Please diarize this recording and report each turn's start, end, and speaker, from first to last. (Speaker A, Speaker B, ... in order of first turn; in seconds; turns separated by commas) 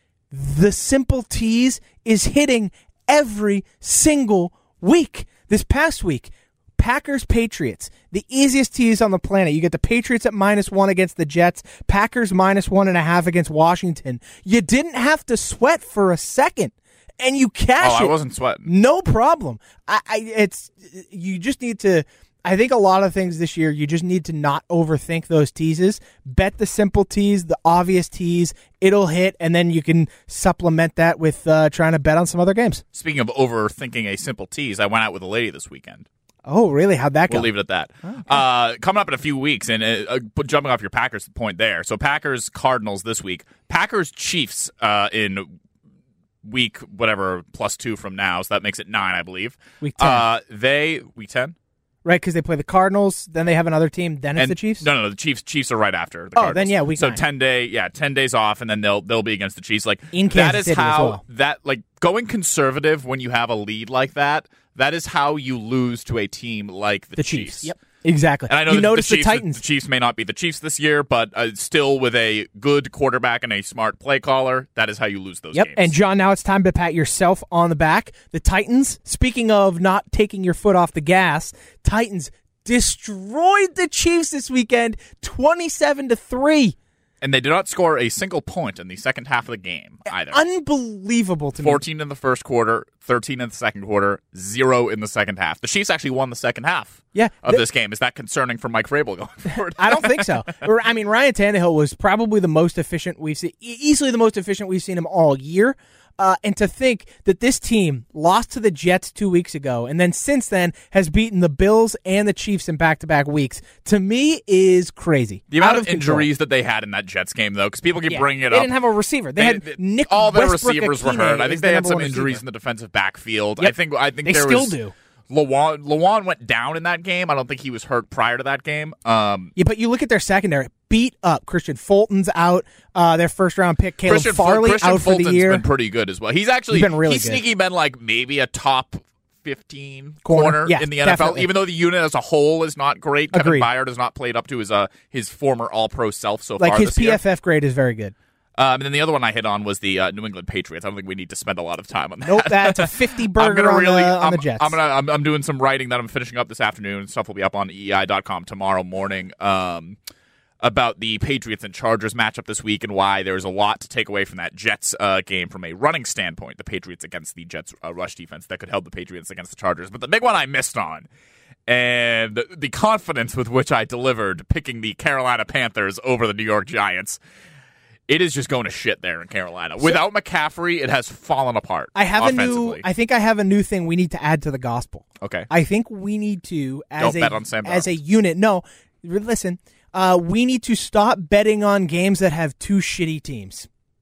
Speaker A: 0.3-18.1, Speaker B: 17.8-18.7, Speaker A: 18.7-32.8, Speaker B: 32.9-36.1, Speaker A: 36.5-37.5, Speaker B: 37.3-45.5, Speaker A: 38.0-38.4, Speaker B: 46.4-51.6, Speaker A: 49.8-50.3, Speaker A: 52.0-54.9, Speaker B: 54.4-67.7, Speaker A: 56.4-57.2, Speaker A: 60.1-61.2, Speaker A: 67.2-69.6, Speaker B: 68.5-75.9, Speaker A: 75.5-86.8, Speaker B: 87.2-90.4, Speaker A: 90.2-91.8, Speaker B: 91.6-100.5, Speaker A: 97.1-97.6, Speaker A: 99.8-116.3, Speaker B: 115.5-118.7, Speaker A: 118.1-122.4, Speaker B: 119.4-124.8, Speaker A: 123.6-124.9, Speaker B: 125.3-129.5, Speaker A: 129.6-135.6, Speaker B: 134.0-147.2, Speaker A: 136.7-137.4, Speaker A: 140.2-141.5, Speaker A: 143.3-143.7, Speaker A: 146.6-148.1, Speaker B: 148.6-160.0, Speaker A: 152.2-154.8, Speaker B: 160.6-171.1, Speaker B: 171.7-177.2, Speaker B: 178.1-182.8, Speaker A: 181.9-193.7, Speaker B: 185.2-185.5, Speaker B: 187.0-187.9